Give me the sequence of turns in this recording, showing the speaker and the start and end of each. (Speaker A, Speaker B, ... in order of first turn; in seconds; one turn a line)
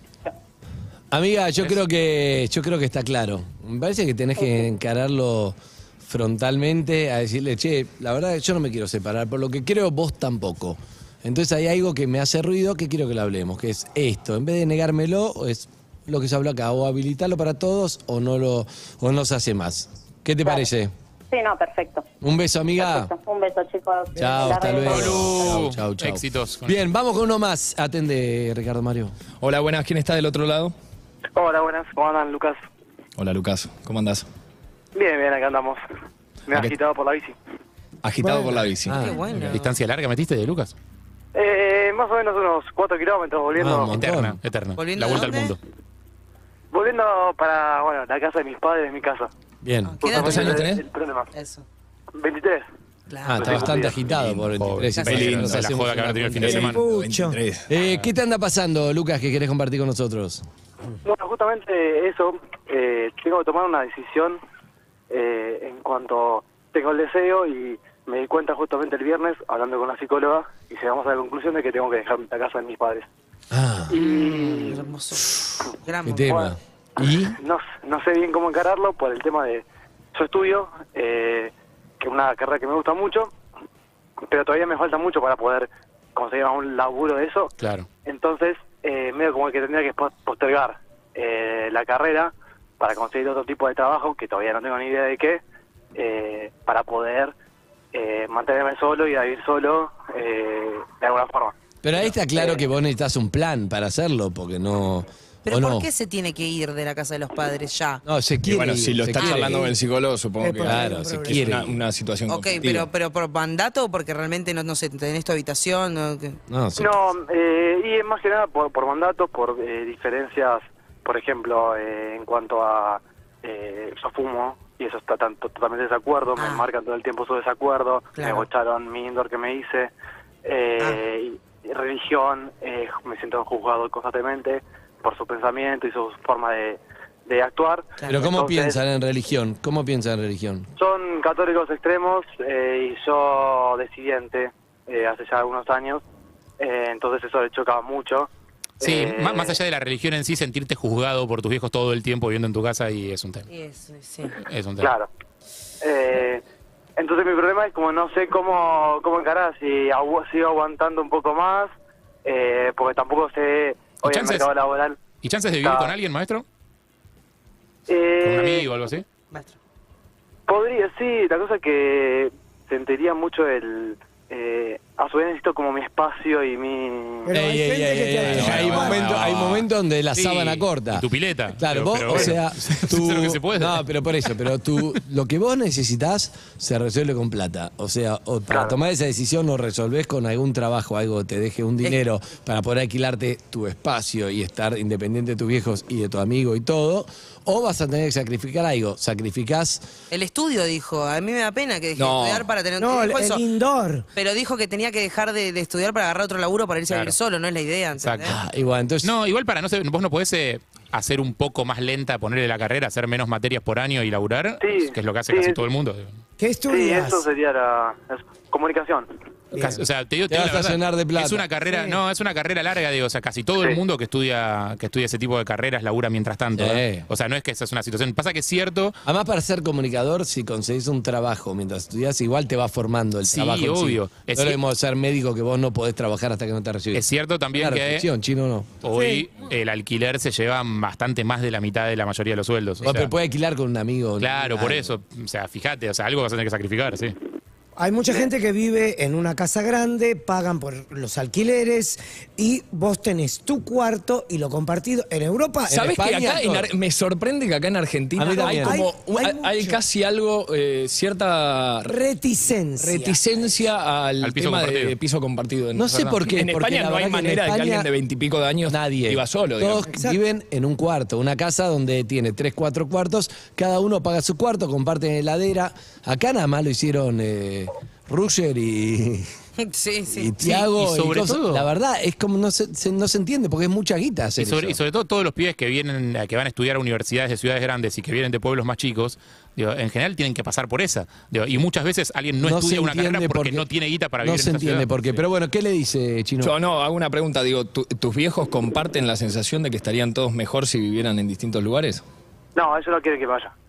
Speaker A: 1.1-20.9
Speaker B: 20.4-20.7
Speaker B: 21.3-22.1
Speaker A: 22.2-23.1
Speaker B: 22.8-25.6
Speaker A: 24.2-29.1
Speaker C: 24.2-25.2
Speaker D: 24.9-26.8
Speaker E: 29.4-30.7
Speaker F: 31.3-32.6
Speaker E: 33.2-34.2
Speaker F: 34.9-35.8
Speaker F: 36.5-37.3
Speaker E: 36.5-36.8
Speaker E: 38.0-39.1
Speaker C: 38.2-38.7
Speaker A: 38.8-39.5
Speaker G: 38.9-39.7
Speaker D: 39.3-40.7
Speaker F: 41.3-44.0
Speaker A: 43.6-44.4
Speaker D: 43.9-45.6
Speaker G: 44.8-45.5
Speaker F: 46.7-49.3
Speaker A: 49.6-50.0
Speaker G: 49.9-50.5
Speaker F: 50.0-51.3
Speaker E: 50.2-50.9
Speaker G: 51.3-51.6
Speaker F: 52.1-52.6
Speaker G: 53.1-53.9
Speaker A: 53.2-56.5
Speaker F: 53.3-54.0
Speaker D: 54.0-56.8
Speaker E: 54.0-54.5
Speaker E: 55.0-55.7
Speaker C: 56.3-57.4
Speaker E: 56.4-57.7
Speaker A: 57.7-60.4
Speaker D: 57.8-58.1
Speaker F: 61.0-64.4
Speaker F: 65.1-73.1
Speaker A: 73.5-73.9
Speaker F: 73.9-74.8
Speaker G: 74.0-75.2
Speaker G: 75.8-76.2
Speaker A: 76.1-77.3
Speaker F: 76.2-83.3
Speaker F: 84.3-87.5
Speaker D: 87.6-87.8
Speaker F: 88.0-95.4
Speaker F: 95.9-97.3
Speaker F: 97.9-102.1
Speaker A: 101.8-105.9
Speaker G: 105.4-108.0
Speaker A: 108.0-109.7
Speaker E: 108.5-112.9
Speaker G: 109.2-109.5
Speaker C: 110.4-111.7
Speaker A: 110.6-111.8
Speaker G: 112.3-116.4
Speaker A: 116.5-116.9
Speaker F: 116.8-129.9
Speaker G: 126.3-126.7
Speaker G: 128.1-128.5
Speaker F: 130.4-138.8
Speaker A: 138.1-140.7
Speaker F: 140.8-146.0
Speaker F: 146.6-148.3
Speaker F: 148.8-149.6
Speaker D: 148.8-153.5
Speaker G: 153.5-154.4
Speaker D: 154.4-154.9
Speaker F: 154.8-155.1
Speaker F: 155.8-156.4
Speaker F: 157.0-161.7
Speaker F: 162.2-165.0
Speaker D: 164.0-164.5
Speaker D: 165.2-166.4
Speaker F: 165.6-165.9
Speaker F: 167.9-168.7
Speaker D: 168.2-169.1
Speaker F: 170.5-177.3
Speaker C: 177.2-179.1
Speaker A: 177.3-199.9
Speaker D: 178.3-179.6
Speaker E: 179.0-179.5
Speaker D: 180.1-183.8
Speaker F: 188.5-188.7
Speaker G: 200.1-203.4
Speaker E: 201.9-202.6
Speaker C: 202.8-204.1
Speaker G: 204.1-208.3
Speaker D: 206.9-207.2
Speaker D: 208.0-208.3
Speaker A: 208.2-209.1
Speaker D: 209.0-216.1
Speaker F: 214.6-215.6
Speaker C: 216.4-217.2
Speaker F: 216.7-219.1
Speaker C: 219.5-219.8
Speaker D: 219.5-229.0
Speaker A: 220.3-221.6
Speaker A: 226.6-227.1
Speaker A: 229.0-238.7
Speaker D: 233.3-234.6
Speaker D: 236.9-238.1
Speaker D: 238.8-243.1
Speaker C: 238.9-239.3
Speaker A: 242.8-244.9
Speaker D: 244.2-247.2
Speaker C: 247.8-255.8
Speaker A: 255.7-256.7
Speaker E: 255.7-261.9
Speaker A: 258.1-258.8
Speaker C: 258.3-259.8
Speaker C: 261.8-263.2
Speaker E: 262.8-269.9
Speaker D: 264.2-264.9
Speaker A: 265.7-267.9
Speaker A: 268.7-279.3
Speaker C: 269.8-270.2
Speaker G: 279.6-280.3
Speaker A: 280.1-284.8
Speaker D: 280.4-281.7
Speaker D: 284.4-295.0
Speaker A: 292.4-293.7
Speaker A: 294.2-296.5
Speaker E: 296.4-302.0
Speaker F: 302.6-303.5